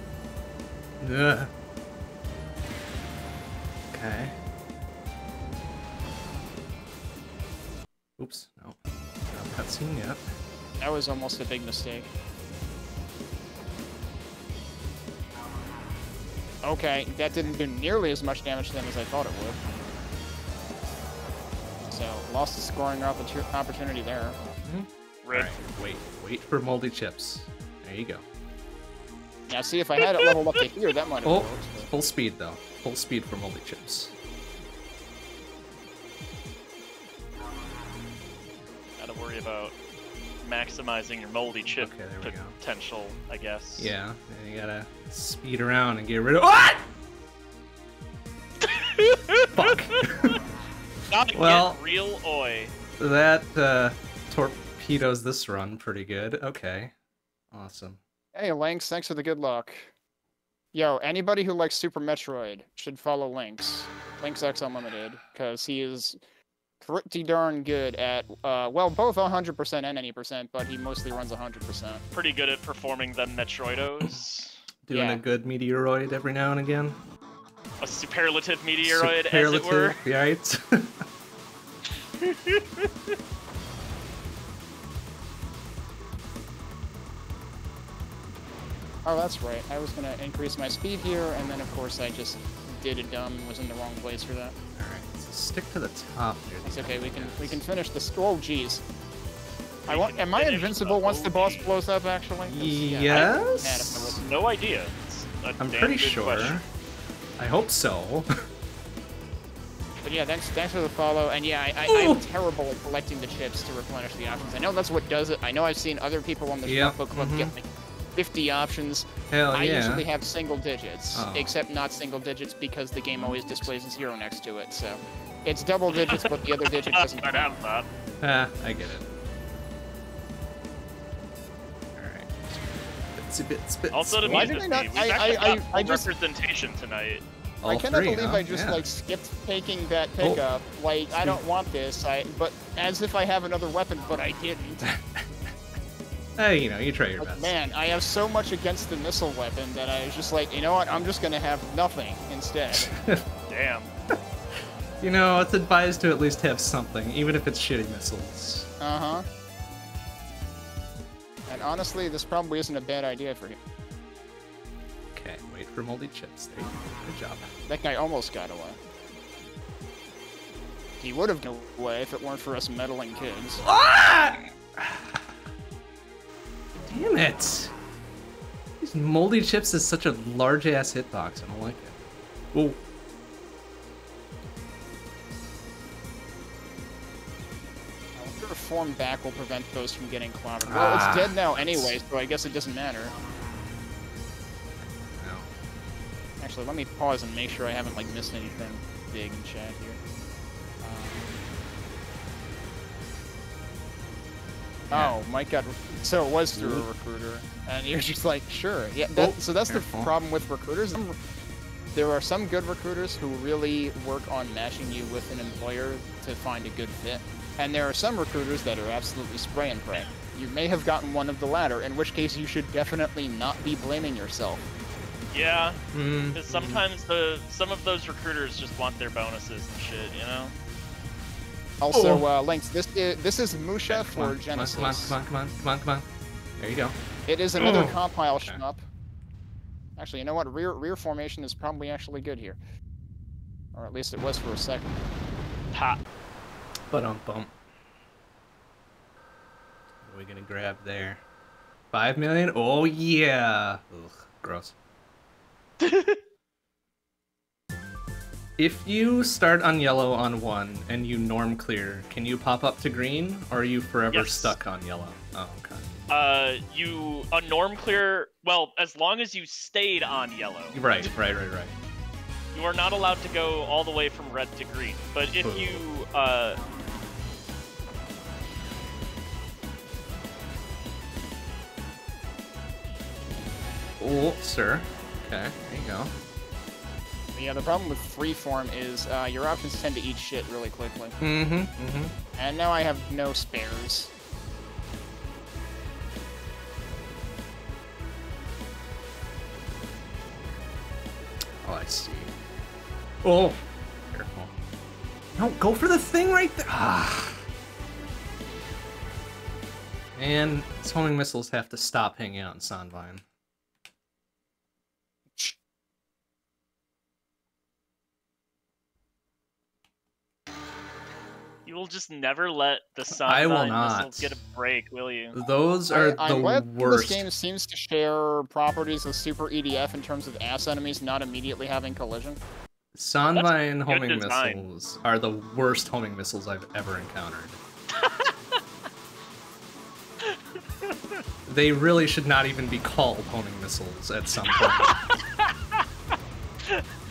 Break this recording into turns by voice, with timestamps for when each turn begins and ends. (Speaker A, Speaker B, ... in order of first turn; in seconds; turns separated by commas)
Speaker A: 1.0-1.5, Speaker A: 3.9-4.3, Speaker A: 8.2-8.8, Speaker A: 9.3-10.2, Speaker B: 10.8-12.1, Speaker B: 16.6-19.6, Speaker B: 21.9-24.4, Speaker A: 24.6-28.2, Speaker C: 25.2-25.5, Speaker B: 29.5-31.9, Speaker A: 31.2-34.1, Speaker C: 39.0-39.7, Speaker C: 40.4-43.9, Speaker A: 41.8-42.5, Speaker A: 43.8-46.9, Speaker C: 48.6-50.4, Speaker A: 49.6-50.4, Speaker C: 51.1-52.7, Speaker A: 51.3-51.8, Speaker A: 53.0-56.9, Speaker A: 57.5-58.0, Speaker B: 58.3-59.9, Speaker B: 60.7-66.2, Speaker B: 66.8-72.0, Speaker C: 72.1-74.6, Speaker A: 74.9-77.0, Speaker B: 74.9-75.2, Speaker C: 77.8-80.0, Speaker A: 78.8-81.0, Speaker C: 82.2-83.1, Speaker B: 89.0-94.5, Speaker A: 94.8-97.6, Speaker B: 96.6-98.8, Speaker C: 99.9-101.7, Speaker B: 99.9-104.2, Speaker A: 102.5-104.2, Speaker C: 104.2-106.6, Speaker A: 105.6-106.6, Speaker A: 107.4-108.3, Speaker B: 110.0-127.5, Speaker A: 111.9-112.2, Speaker A: 116.7-117.5, Speaker A: 119.3-120.1, Speaker A: 121.1-121.5, Speaker A: 123.1-124.0, Speaker C: 125.9-127.9, Speaker A: 128.2-129.1, Speaker A: 132.0-134.6, Speaker C: 133.9-137.2, Speaker B: 134.3-136.1, Speaker A: 137.6-138.8, Speaker B: 137.7-144.9, Speaker A: 141.1-141.4, Speaker A: 144.8-145.6, Speaker A: 146.4-147.5, Speaker B: 147.2-152.9, Speaker A: 152.8-153.2, Speaker C: 153.5-153.9, Speaker A: 154.6-158.7, Speaker B: 158.8-159.3, Speaker B: 161.5-163.6, Speaker A: 165.1-167.5, Speaker B: 167.7-168.8, Speaker B: 171.0-173.6, Speaker A: 173.7-175.4, Speaker A: 176.9-177.7, Speaker A: 178.8-182.0, Speaker A: 182.5-182.8, Speaker B: 188.2-193.1, Speaker A: 190.7-192.0, Speaker A: 195.1-195.5, Speaker B: 196.4-200.0, Speaker B: 200.8-201.4, Speaker A: 204.9-205.2, Speaker B: 204.9-211.2, Speaker A: 206.6-206.9, Speaker A: 209.2-210.1, Speaker B: 211.9-224.6, Speaker C: 225.3-225.8, Speaker A: 225.9-226.8, Speaker C: 226.3-230.6, Speaker B: 231.8-235.2, Speaker A: 231.9-232.2, Speaker A: 233.9-236.1, Speaker A: 236.6-237.0, Speaker B: 237.3-238.8, Speaker A: 237.6-238.6, Speaker B: 240.0-242.6, Speaker B: 243.7-245.0, Speaker C: 245.7-246.0, Speaker A: 246.9-247.5, Speaker A: 250.0-251.2, Speaker A: 251.9-254.7, Speaker C: 255.8-256.2, Speaker A: 258.6-265.9, Speaker C: 264.1-264.6, Speaker C: 266.1-271.1, Speaker A: 270.7-271.8, Speaker C: 272.5-276.6, Speaker A: 275.4-275.8, Speaker A: 284.0-286.1, Speaker B: 287.4-291.2, Speaker A: 291.2-292.1, Speaker B: 292.4-294.1, Speaker A: 301.6-302.3, Speaker A: 303.2-303.6, Speaker A: 304.1-304.5, Speaker A: 305.4-307.4, Speaker A: 310.1-313.2, Speaker C: 321.7-325.4, Speaker A: 323.1-324.4, Speaker A: 325.3-327.3, Speaker B: 325.9-332.4, Speaker A: 332.9-337.6, Speaker C: 333.3-334.6, Speaker C: 337.9-338.6, Speaker C: 340.2-341.2, Speaker A: 341.5-344.9, Speaker C: 344.5-345.8, Speaker C: 346.6-346.9